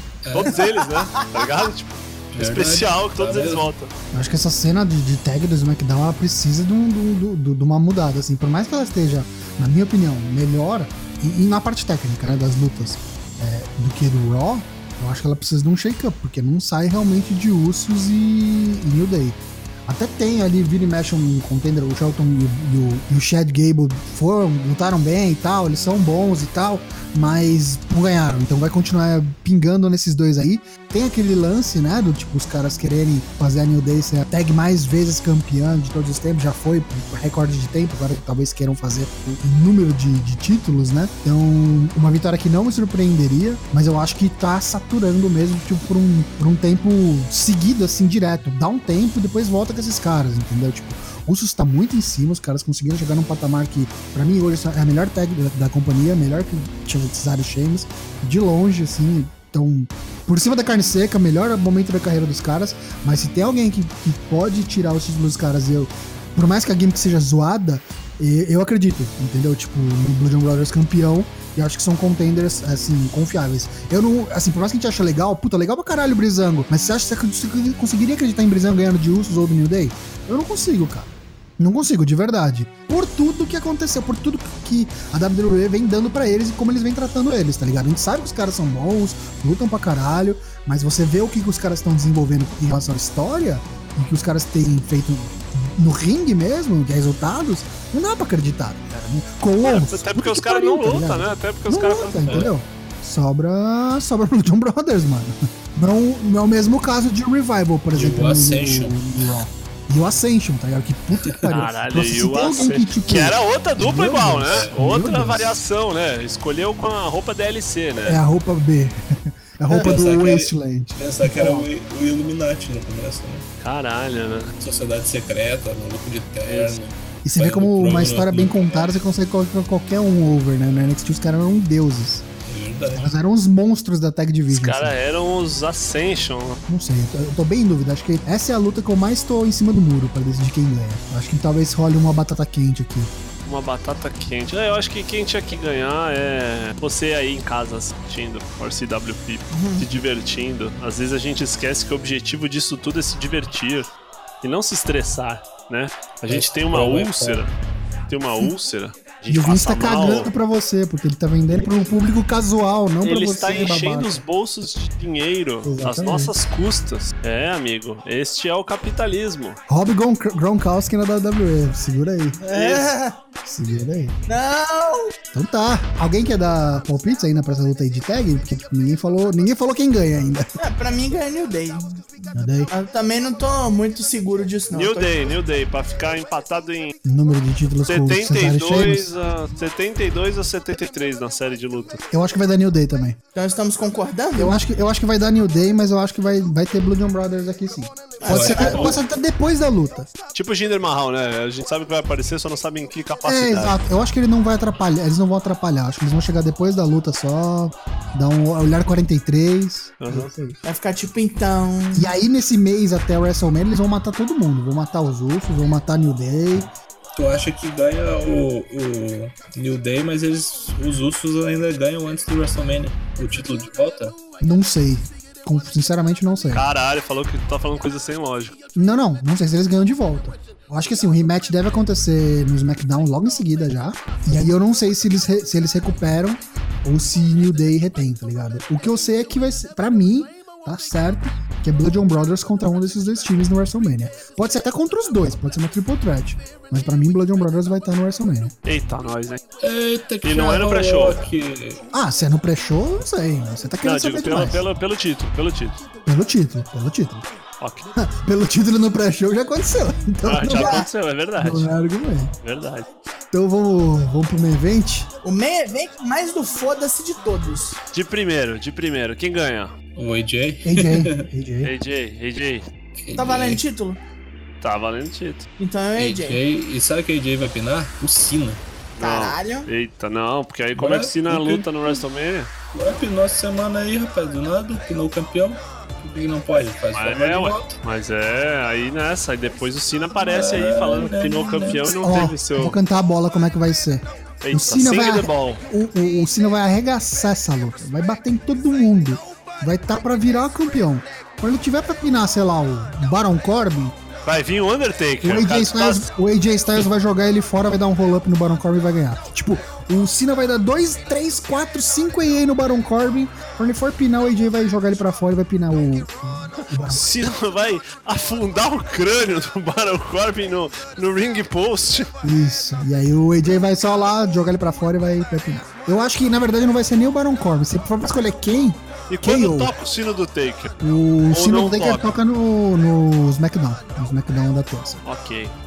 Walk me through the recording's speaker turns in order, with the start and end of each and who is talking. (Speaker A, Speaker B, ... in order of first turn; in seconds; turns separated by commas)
Speaker A: 0.2-0.7, Speaker B: 0.3-3.9, Speaker A: 2.3-3.7, Speaker C: 4.1-115.6, Speaker B: 99.6-102.5, Speaker A: 102.3-102.5, Speaker A: 107.9-109.4, Speaker B: 111.5-118.2, Speaker A: 114.5-114.8, Speaker C: 118.0-121.7, Speaker A: 119.7-123.5, Speaker B: 123.6-124.5, Speaker A: 124.6-128.9, Speaker B: 126.5-126.8, Speaker C: 127.2-132.3, Speaker A: 132.5-133.1, Speaker C: 132.9-135.0, Speaker B: 134.5-136.6, Speaker C: 136.7-143.1, Speaker B: 143.4-157.5, Speaker D: 149.5-149.9, Speaker A: 156.3-157.4, Speaker B: 158.1-160.3, Speaker C: 159.3-164.2, Speaker B: 163.0-169.6, Speaker C: 165.6-166.3, Speaker C: 169.7-172.4, Speaker D: 172.4-173.2, Speaker B: 172.5-172.9, Speaker C: 173.4-174.2, Speaker D: 174.3-175.2, Speaker C: 175.3-180.6, Speaker D: 180.6-185.3, Speaker C: 182.3-182.7, Speaker B: 184.7-186.9, Speaker C: 187.1-189.1, Speaker B: 187.9-192.0, Speaker C: 192.1-193.2, Speaker D: 193.3-194.6, Speaker C: 194.4-200.1, Speaker D: 198.2-199.0, Speaker A: 198.3-199.0, Speaker B: 200.3-203.8, Speaker C: 203.2-210.6, Speaker B: 210.0-210.3, Speaker D: 210.6-212.1, Speaker C: 211.9-216.7, Speaker A: 217.2-224.2, Speaker C: 224.4-226.7, Speaker B: 226.5-228.6, Speaker C: 228.8-248.6, Speaker B: 248.7-249.4, Speaker A: 249.6-251.9, Speaker B: 250.2-251.2, Speaker C: 251.9-254.6, Speaker B: 253.8-255.8, Speaker C: 256.1-257.3, Speaker B: 257.6-257.9, Speaker C: 258.0-262.3, Speaker B: 260.2-261.7, Speaker D: 260.5-260.9, Speaker B: 262.4-262.9, Speaker C: 263.3-265.1, Speaker D: 265.2-267.8, Speaker B: 267.9-269.7, Speaker A: 270.0-271.3, Speaker C: 270.6-271.7, Speaker B: 271.6-272.7, Speaker A: 273.0-273.6, Speaker D: 273.2-274.0, Speaker B: 274.6-275.5, Speaker D: 275.6-276.4, Speaker A: 276.0-278.6, Speaker B: 279.0-282.5, Speaker D: 279.0-279.7, Speaker A: 280.8-282.0, Speaker A: 282.7-287.8, Speaker B: 286.9-292.8, Speaker A: 290.3-291.9, Speaker C: 292.0-304.0, Speaker B: 294.4-295.6, Speaker B: 304.2-306.1, Speaker C: 305.2-317.2, Speaker B: 316.9-322.1, Speaker C: 322.2-329.7, Speaker B: 329.1-330.8, Speaker C: 330.8-335.0, Speaker B: 331.3-332.1, Speaker B: 335.1-335.5